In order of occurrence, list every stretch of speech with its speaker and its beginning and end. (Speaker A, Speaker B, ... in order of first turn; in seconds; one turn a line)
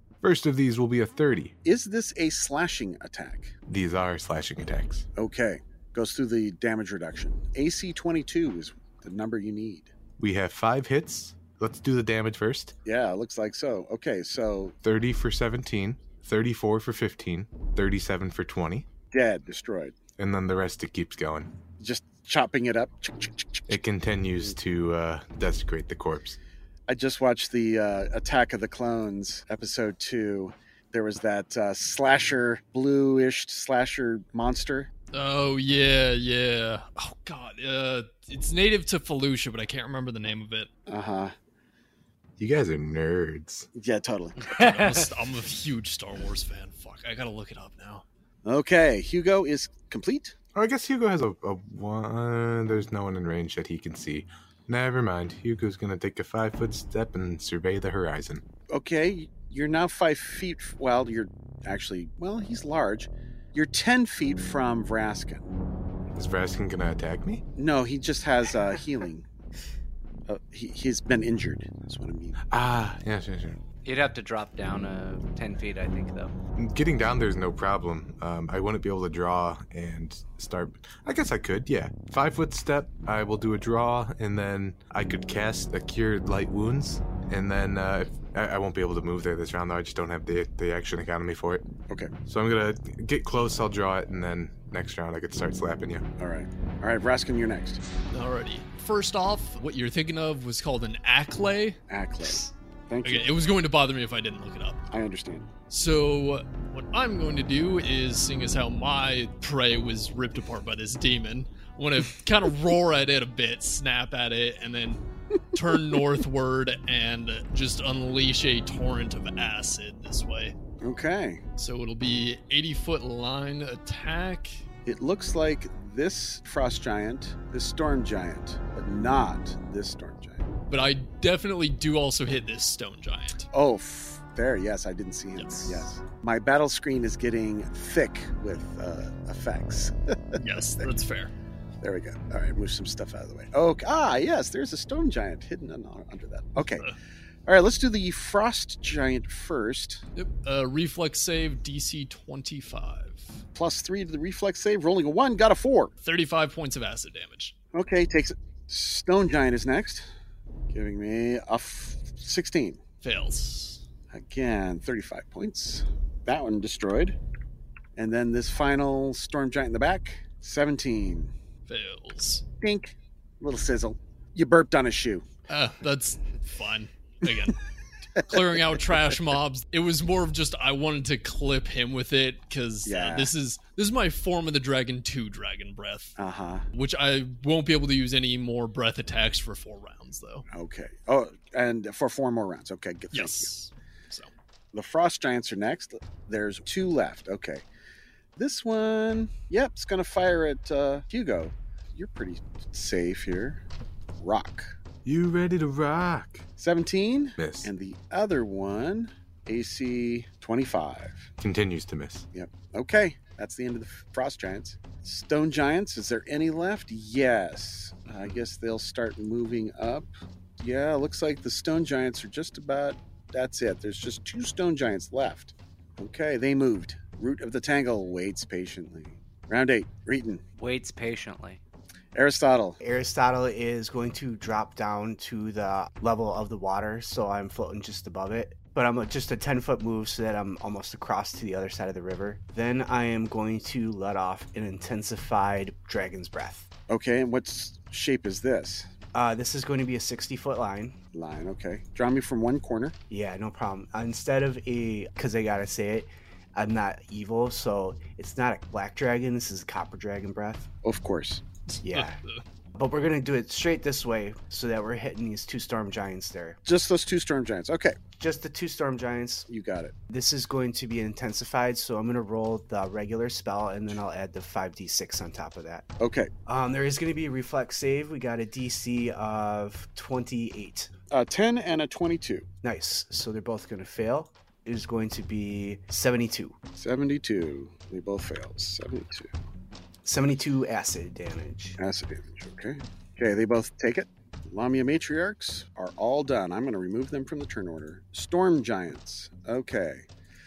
Speaker A: 0.2-1.6
Speaker B: 1.6-3.5
Speaker A: 3.7-5.1
Speaker B: 5.2-9.9
Speaker A: 10.2-12.8
Speaker B: 12.8-14.8
Speaker A: 14.8-18.9
Speaker B: 19.1-20.0
Speaker A: 20.2-21.5
Speaker B: 21.8-23.8
Speaker A: 23.7-26.4
Speaker B: 26.9-34.9
Speaker C: 35.1-40.7
Speaker B: 40.9-41.3
Speaker A: 42.4-43.7
Speaker B: 43.7-44.6
Speaker C: 44.5-48.0
Speaker B: 48.5-50.4
Speaker A: 50.5-58.4
Speaker B: 58.7-65.5
Speaker A: 66.2-67.4
Speaker B: 67.6-69.3
Speaker B: 70.3-72.4
Speaker A: 72.5-73.6
Speaker D: 73.8-76.3
Speaker A: 76.6-91.6
Speaker A: 92.3-96.1
Speaker B: 96.2-97.8
Speaker C: 98.1-102.3
Speaker B: 101.9-103.3
Speaker C: 103.0-104.9
Speaker B: 104.9-105.5
Speaker C: 105.7-115.0
Speaker C: 115.5-120.5
Speaker B: 120.8-121.4
Speaker C: 121.6-124.7
Speaker B: 124.9-130.5
Speaker C: 130.7-133.5
Speaker B: 133.5-140.9
Speaker C: 135.4-135.9
Speaker C: 140.4-141.3
Speaker B: 141.8-146.9
Speaker B: 147.5-150.0
Speaker C: 150.2-153.4
Speaker B: 153.5-155.9
Speaker C: 156.0-157.5
Speaker B: 157.7-160.1
Speaker B: 160.7-162.8
Speaker C: 163.0-163.8
Speaker B: 164.1-167.2
Speaker B: 167.9-171.3
Speaker C: 171.7-172.4
Speaker B: 172.6-175.2
Speaker C: 175.5-177.6
Speaker C: 178.2-186.2
Speaker B: 182.8-183.3
Speaker B: 186.2-186.7
Speaker C: 186.7-190.5
Speaker B: 190.5-193.5
Speaker C: 193.1-194.3
Speaker B: 194.7-197.6
Speaker B: 198.4-203.6
Speaker B: 204.2-204.7
Speaker A: 205.1-206.4
Speaker B: 206.6-211.3
Speaker A: 207.4-207.7
Speaker A: 211.4-212.3
Speaker B: 212.3-220.1
Speaker B: 220.6-230.4
Speaker D: 230.6-231.6
Speaker B: 232.1-232.8
Speaker E: 232.8-246.7
Speaker B: 246.9-248.9
Speaker E: 249.1-251.0
Speaker B: 251.1-253.0
Speaker E: 253.1-260.7
Speaker B: 260.8-261.4
Speaker C: 261.7-262.4
Speaker E: 261.8-262.2
Speaker E: 262.8-266.6
Speaker B: 266.6-268.0
Speaker E: 268.2-269.5
Speaker B: 269.5-269.9
Speaker E: 270.1-275.9
Speaker B: 276.0-276.3
Speaker E: 276.5-280.9
Speaker B: 281.1-282.5
Speaker E: 282.6-286.6
Speaker B: 286.8-289.3
Speaker E: 290.1-291.8
Speaker B: 291.8-300.1